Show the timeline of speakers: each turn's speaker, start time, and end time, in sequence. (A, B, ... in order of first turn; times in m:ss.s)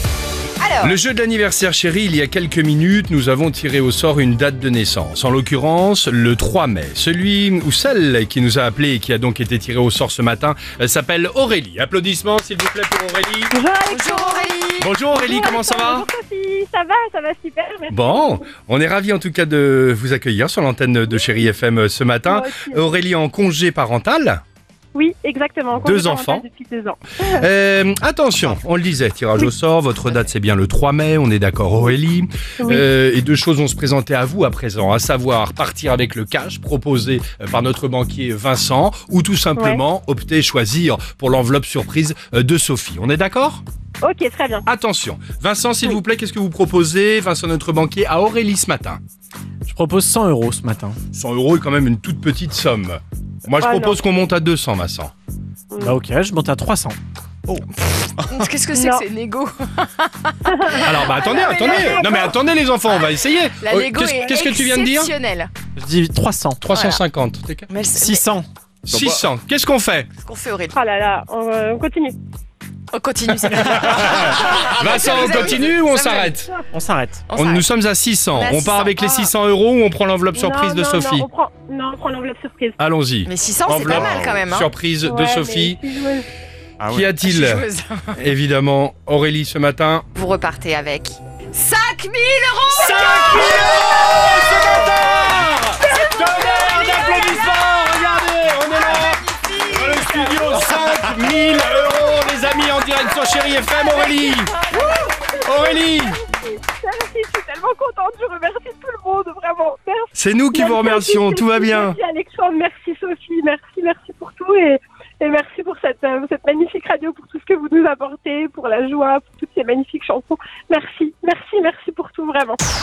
0:00.6-0:01.0 A
0:00.8-0:13.5 B
0:13.5-0:14.5 C
0:13.9-0:14.9 A
0:14.8-0:16.1 B
0:15.1-0:18.4 C
0:17.9-0:24.4 B
0:22.2-0:22.9 C
0:24.9-0:27.4 C
0:25.8-0:26.4 B
0:27.2-0:43.6 B
0:32.6-0:32.8 C
0:39.6-0:39.8 C
0:44.0-0:44.6 C
0:44.7-0:49.0 B
0:49.6-0:51.0 D
0:51.1-0:55.1 B
0:53.6-0:54.0 C
0:55.7-0:56.0 C
0:55.8-0:57.6 D
0:57.8-1:02.3 A
0:58.7-0:59.0 C
1:00.5-1:02.3 C
1:00.8-1:05.1 B
1:02.9-1:05.5 A
1:05.8-1:06.6 D
1:06.6-1:07.7 B
1:06.7-1:07.0 A
1:07.7-1:08.3 A
1:07.9-1:08.4 D
1:08.8-1:10.1 B
1:10.2-1:10.8 A
1:10.7-1:12.2 C
1:12.9-1:16.3 A
1:13.7-1:16.5 B
1:14.1-1:15.7 C
1:16.3-1:16.6 C
1:16.7-1:17.2 D
1:17.3-1:17.6 A
1:17.3-1:21.3 B
1:18.3-1:19.2 A
1:20.3-1:22.8 C
1:22.8-1:25.8 B
1:23.2-1:24.7 A
1:25.0-1:26.3 C
1:26.8-1:30.1 B
1:27.2-1:28.1 A
1:30.1-1:34.9 A
1:32.7-1:44.5 B
1:33.4-1:33.8 C
1:35.8-1:37.5 C
1:36.4-1:37.6 A
1:38.8-1:39.7 A
1:39.5-1:42.5 C
1:43.4-2:02.6 C
1:45.4-1:46.2 B
1:50.1-1:52.0 B